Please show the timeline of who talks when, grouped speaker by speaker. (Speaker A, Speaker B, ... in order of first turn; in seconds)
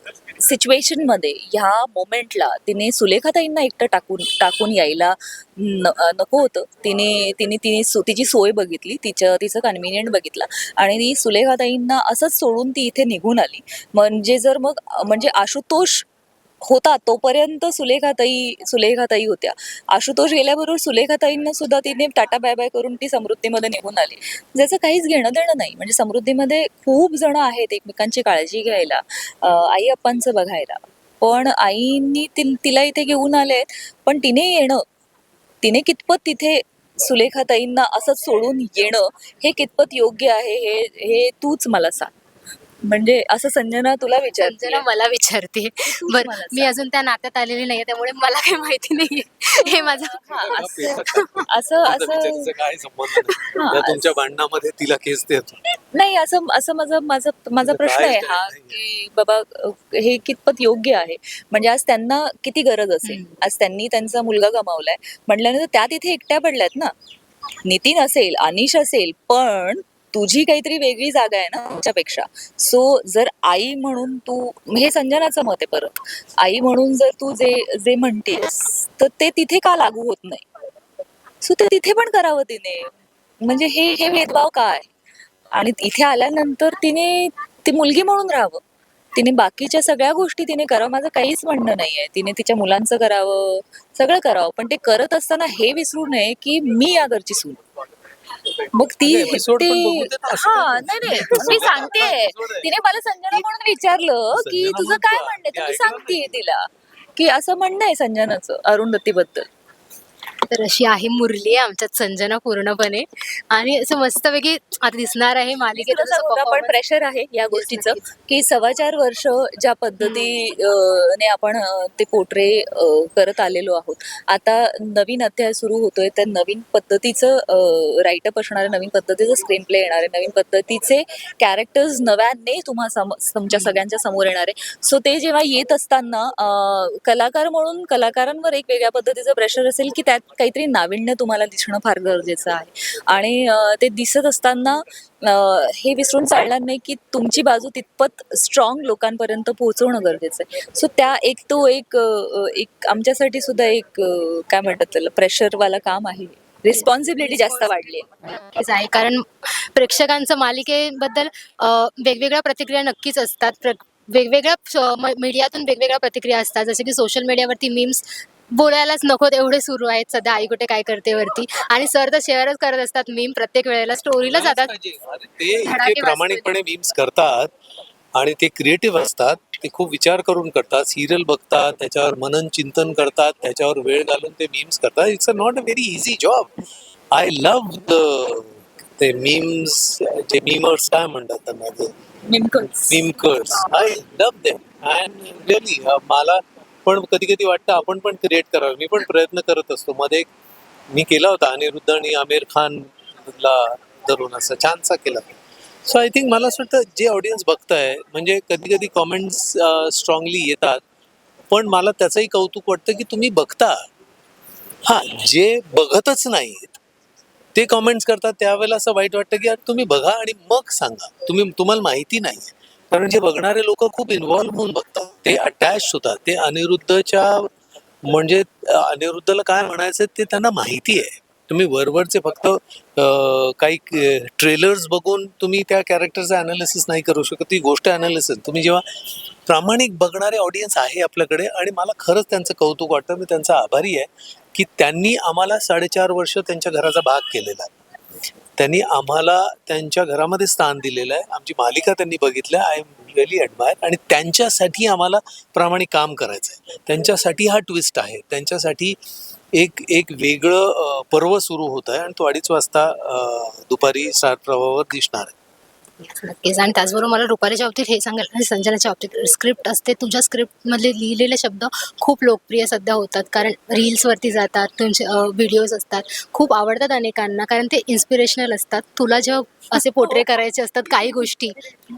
Speaker A: 0.4-16.1, 16.6-34.8, 35.6-42.1, 42.9-44.9, 45.8-46.8, 49.6-51.0, 51.5-52.5, 53.5-54.2, 55.9-66.9, 67.7-80.5, 81.4-84.9, 85.5-88.6, 89.2-97.6, 98.8-109.5, 115.8-158.1, 192.3-193.0, 279.7-280.2
Speaker B: 44.4-51.5, 63.0-63.3, 101.1-102.1, 110.5-116.8, 117.5-118.0, 120.0-120.3, 133.5-133.8, 156.7-174.7, 175.6-176.5, 266.0-281.6
Speaker C: 50.5-55.6, 57.6-58.8, 99.0-102.7, 104.3-106.4, 174.2-177.5, 178.2-186.5, 187.1-191.9, 192.8-200.3, 200.9-205.3, 205.9-210.8, 211.5-213.8, 214.9-216.8, 217.6-227.5, 228.1-238.8, 239.5-247.7, 248.6-259.0, 259.5-265.3